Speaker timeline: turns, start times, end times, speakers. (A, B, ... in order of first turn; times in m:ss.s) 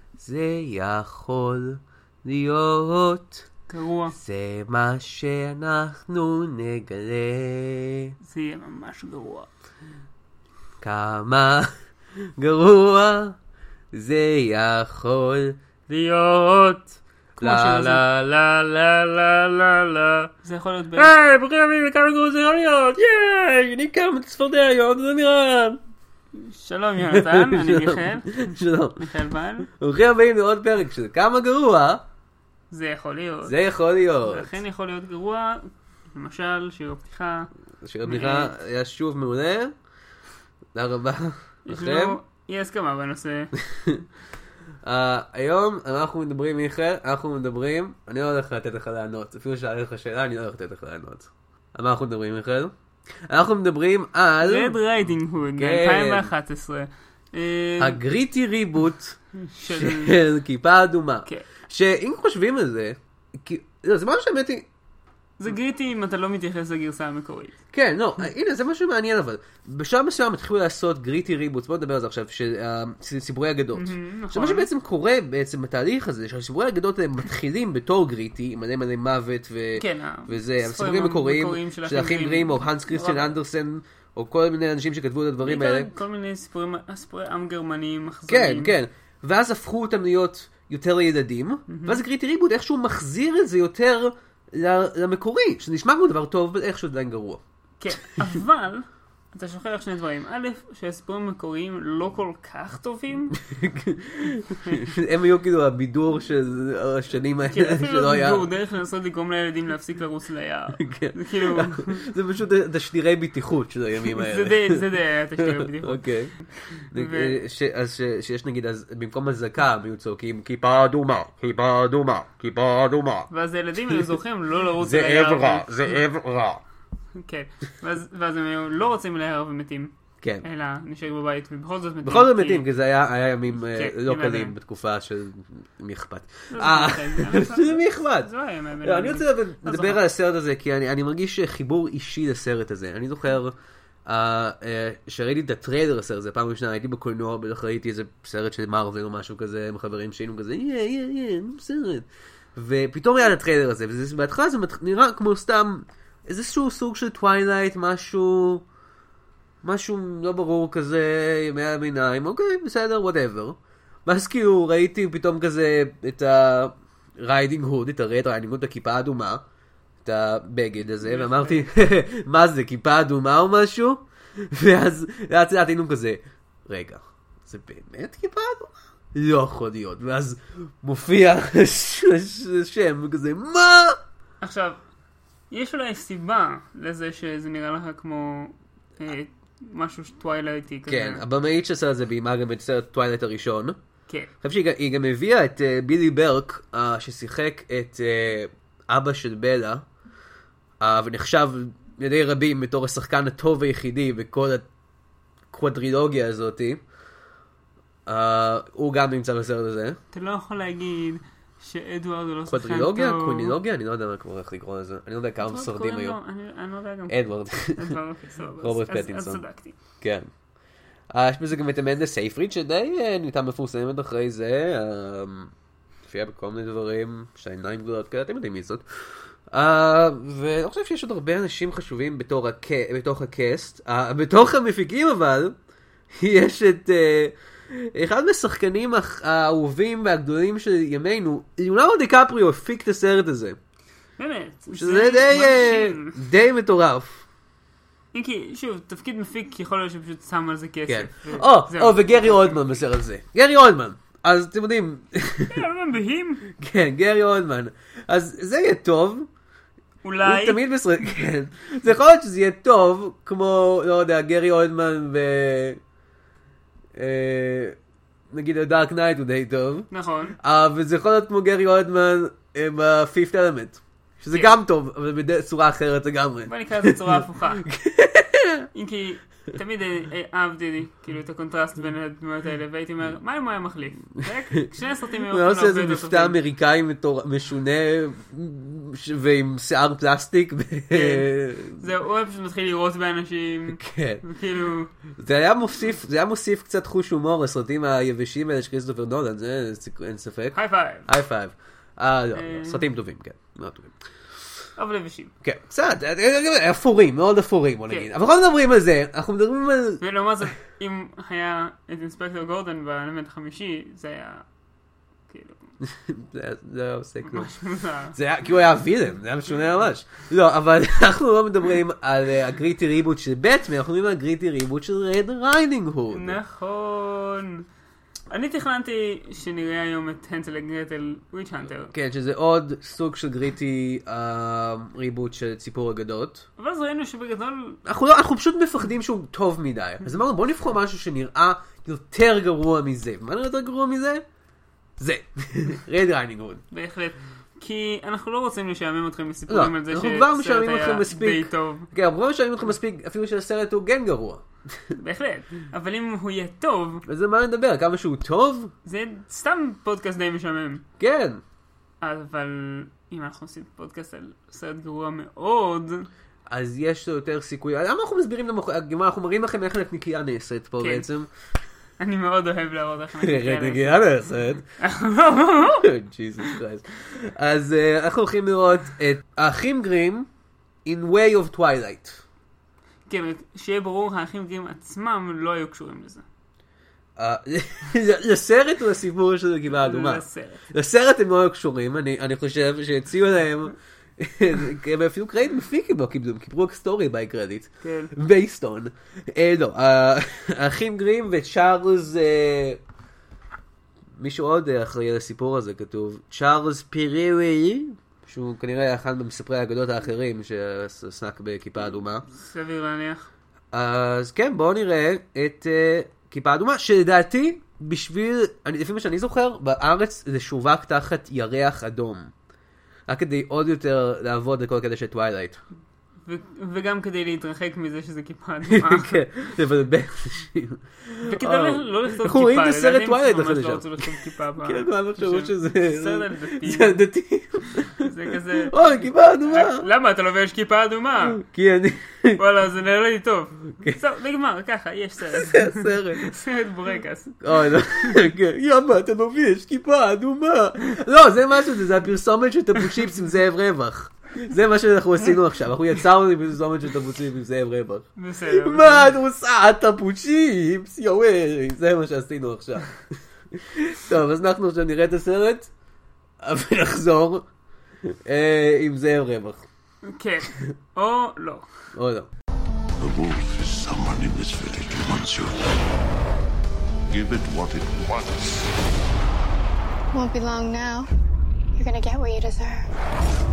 0:00.2-0:03.5 A
0:03.7-0:04.2 B
0:04.1-0:08.1 A
0:08.2-0:09.5 B
0:10.8-0:11.7 A
0:12.4-0:13.4 A
0:13.9-0:15.6 A
0:15.9-0:18.1 B
0:17.4-0:18.8 A
0:18.8-0:21.1 B
0:21.0-0:25.8 A
0:26.3-0:29.7 B
0:27.1-0:29.0 A
0:29.7-0:32.0 A
0:32.7-0:33.5 B
0:33.4-0:34.5 A
0:34.2-0:37.5 B
0:37.8-0:39.7 A
0:38.0-0:38.5 B
0:40.7-0:42.2 A
0:41.6-0:43.5 B
0:43.7-0:44.0 A
0:44.8-0:52.7 A
0:53.3-0:54.8 A
0:54.4-0:58.0 B
0:55.6-0:56.3 A
0:57.8-0:59.2 A
0:59.3-1:00.2 B
0:59.7-1:04.6 A
1:05.4-1:07.5 B
1:07.7-1:25.9 A
1:13.7-1:14.7 B
1:19.8-1:23.3 B
1:25.4-1:28.7 B
1:28.3-1:37.4 A
1:31.7-1:32.0 B
1:37.8-1:43.4 B
1:43.4-1:48.4 A
1:44.6-1:44.9 B
1:47.5-1:52.0 B
1:50.8-1:56.3 A
1:54.0-1:57.4 B
1:56.9-2:03.3 A
2:03.3-2:05.9 B
2:04.8-2:06.6 A
2:07.1-2:12.6 B
2:10.2-2:10.4 A
2:12.0-2:18.3 A
2:13.5-2:14.6 B
2:16.5-2:20.0 B
2:18.8-2:23.5 A
2:24.0-2:38.6 A
2:39.6-2:49.4 A
2:50.0-3:04.0 A
2:51.0-2:51.7 B
3:04.4-3:04.8 B
3:05.5-3:11.2 B
3:10.9-3:13.8 A
3:14.4-3:19.8 A
3:20.8-3:24.6 A
3:25.5-3:26.8 A
3:28.0-3:30.0 A
3:30.1-3:33.6 B
3:32.5-3:36.2 A
3:35.4-3:39.8 B
3:37.1-3:38.0 A
3:38.6-3:39.4 A
3:40.0-3:40.3 A
3:41.1-3:45.5 A
3:46.1-3:48.8 A
3:49.5-3:55.6 A
3:56.2-4:03.6 A
4:04.2-4:06.2 B
4:04.7-4:07.2 A
4:08.1-4:12.6 B
4:10.9-4:15.6 A
4:15.5-4:16.4 B
4:16.5-4:19.3 A
4:20.0-4:20.6 B
4:20.2-4:25.8 A
4:27.0-4:27.8 A
4:28.3-4:38.6 A
4:29.9-4:30.4 B
4:36.5-4:37.6 B
4:38.7-4:46.4 B
4:45.3-4:51.8 A
4:50.9-4:51.3 B
4:51.8-4:54.9 B
4:53.7-4:54.2 A
4:55.1-5:03.9 A
5:00.5-5:01.1 B
5:02.3-5:02.9 B
5:04.8-5:05.3 B
5:05.4-5:10.0 A
5:10.0-5:14.4 B
5:15.3-5:15.6 B
5:15.8-5:17.5 A
5:17.2-5:18.2 B
5:18.1-5:26.4 A
5:26.1-5:27.6 B
5:28.3-5:31.9 B
5:31.9-5:36.4 A
5:36.6-5:37.8 B
5:37.8-5:44.2 A
5:45.0-5:46.6 A
5:46.7-5:51.9 B
5:49.5-5:54.4 A
5:54.9-5:57.0 B
5:57.0-5:58.7 A
5:58.8-6:00.8 B
6:01.0-6:01.4 A
6:02.0-6:06.1 B
6:06.5-6:11.3 A
6:10.8-6:11.1 B
6:12.0-6:14.0 B
6:13.2-6:14.6 A
6:14.8-6:15.9 B
6:15.8-6:20.3 A
6:20.8-6:22.2 A
6:23.1-6:26.2 B
6:27.2-6:42.8 A
6:29.7-6:30.6 B
6:37.8-6:38.1 B
6:44.2-6:52.2 A
6:52.3-6:53.3 B
6:53.7-7:02.3 A
7:03.1-7:05.6 A
7:06.2-7:09.2 B
7:08.7-7:14.1 A
7:11.2-7:17.0 B
7:14.6-7:19.9 A
7:18.0-7:18.8 B
7:19.5-7:21.4 B
7:21.3-7:22.4 A
7:22.4-7:27.4 B
7:25.3-7:26.3 A
7:27.4-7:43.0 A
7:38.2-7:39.2 B
7:43.5-7:45.7 A
7:46.4-7:47.4 A
7:48.0-7:49.6 A
7:50.0-7:51.7 B
7:51.9-7:52.3 A
7:53.0-7:56.0 C
7:57.1-7:58.7 C
8:00.1-8:01.1 D
8:01.8-8:02.9 D